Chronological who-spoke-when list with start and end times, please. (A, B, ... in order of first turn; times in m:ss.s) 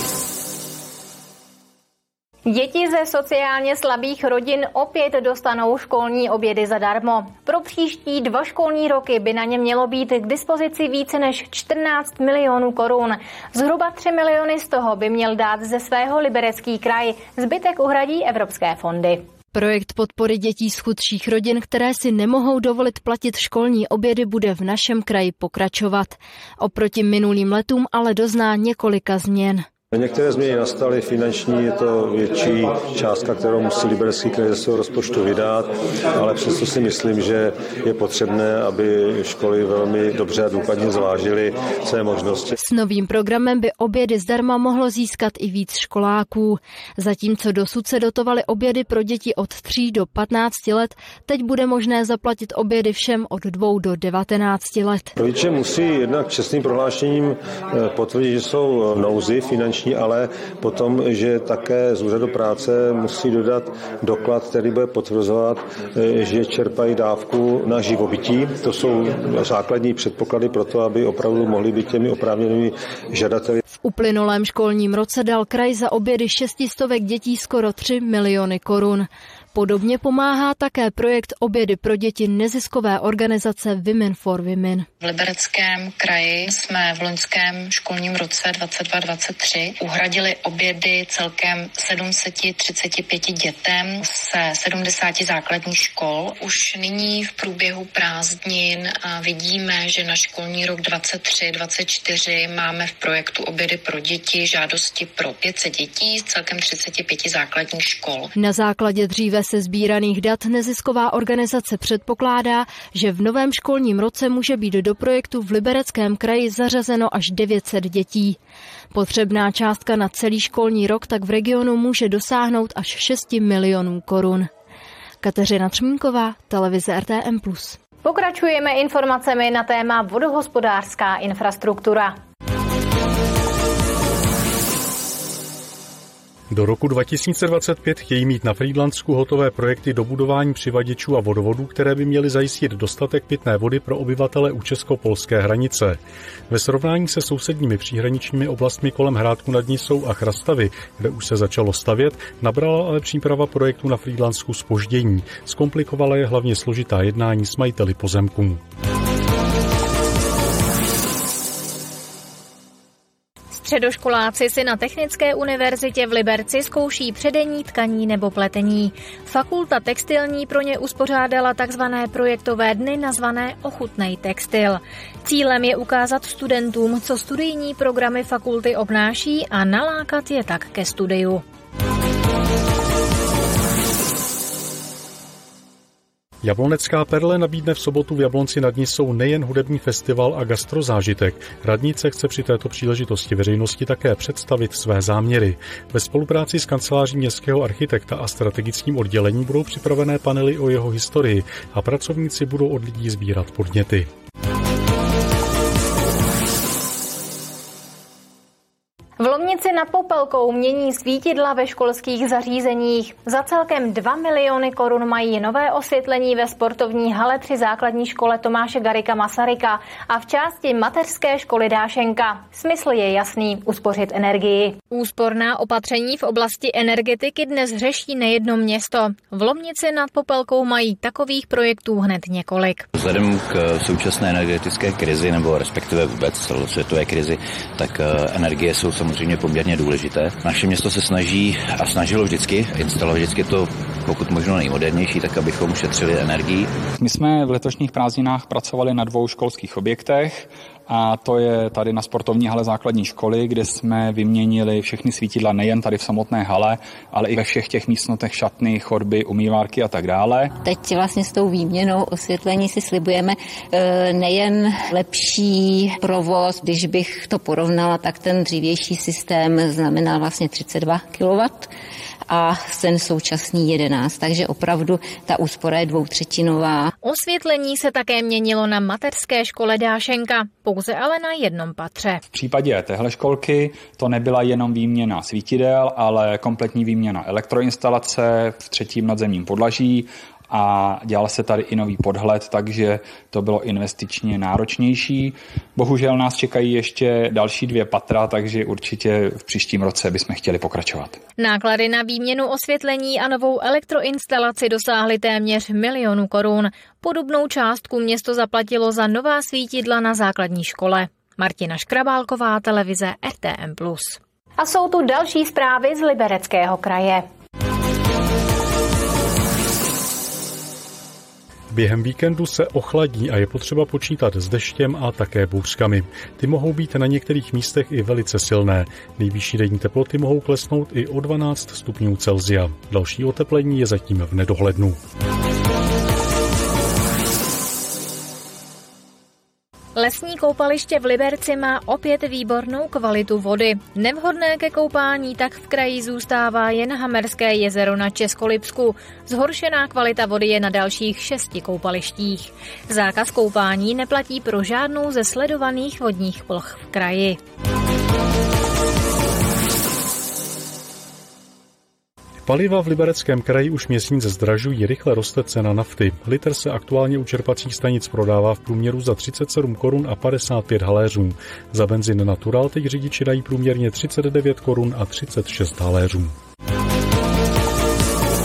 0:02.5-0:19.2 A
0:19.5-0:29.6 B
0:29.9-0:42.5 C
0:42.6-0:55.1 B
0:55.2-1:13.6 C
1:13.8-1:24.9 B
1:25.0-1:48.3 D
1:48.3-1:58.4 B
1:58.9-2:04.5 B
2:05.2-2:07.8 B
2:08.0-2:12.1 A
2:16.5-2:38.6 E
2:43.5-3:01.4 A
3:06.4-3:24.1 E
3:29.2-3:52.8 A
3:52.9-4:06.7 F
4:07.0-4:20.5 G
4:20.6-4:31.7 H
4:32.3-4:36.9 H
4:37.0-4:42.2 A
4:42.3-5:01.2 G
5:01.4-5:17.2 A
5:21.7-5:35.0 E
5:40.0-5:57.4 A
6:02.4-6:16.3 E